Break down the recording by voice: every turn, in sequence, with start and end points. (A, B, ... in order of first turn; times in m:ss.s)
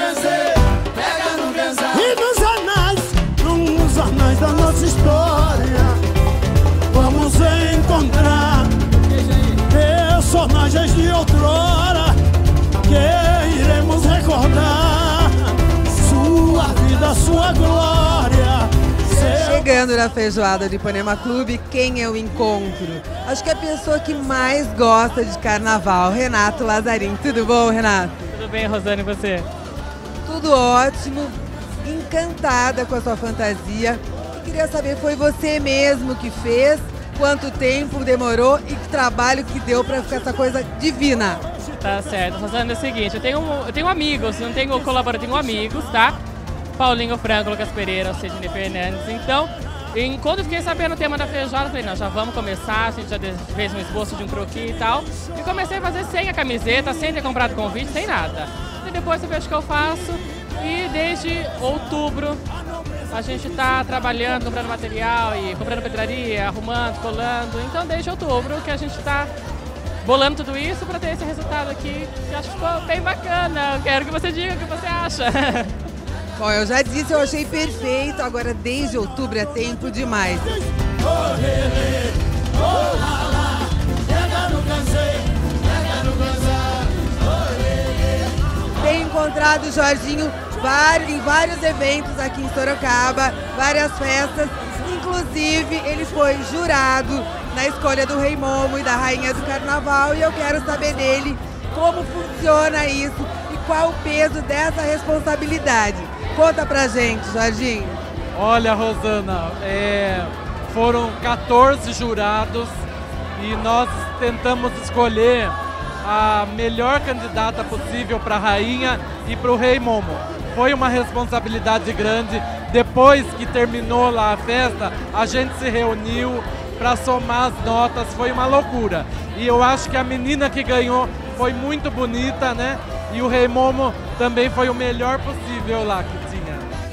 0:01.9-0:06.0 A
0:06.9-0:08.7 A
0:09.7-0:12.2 A
0:12.8-0:19.6 A
0:19.1-0:28.2 B
0:28.3-0:29.5 C
0:30.2-0:41.4 B
0:41.8-0:46.2 C
0:46.8-1:02.4 C
1:03.1-1:09.3 C
1:10.0-1:15.7 C
1:16.4-1:20.5 B
1:21.2-1:22.0 A
1:22.9-1:23.4 A
1:24.3-1:25.0 A
1:28.8-1:48.0 B
1:48.3-1:52.8 D
1:53.4-2:16.7 D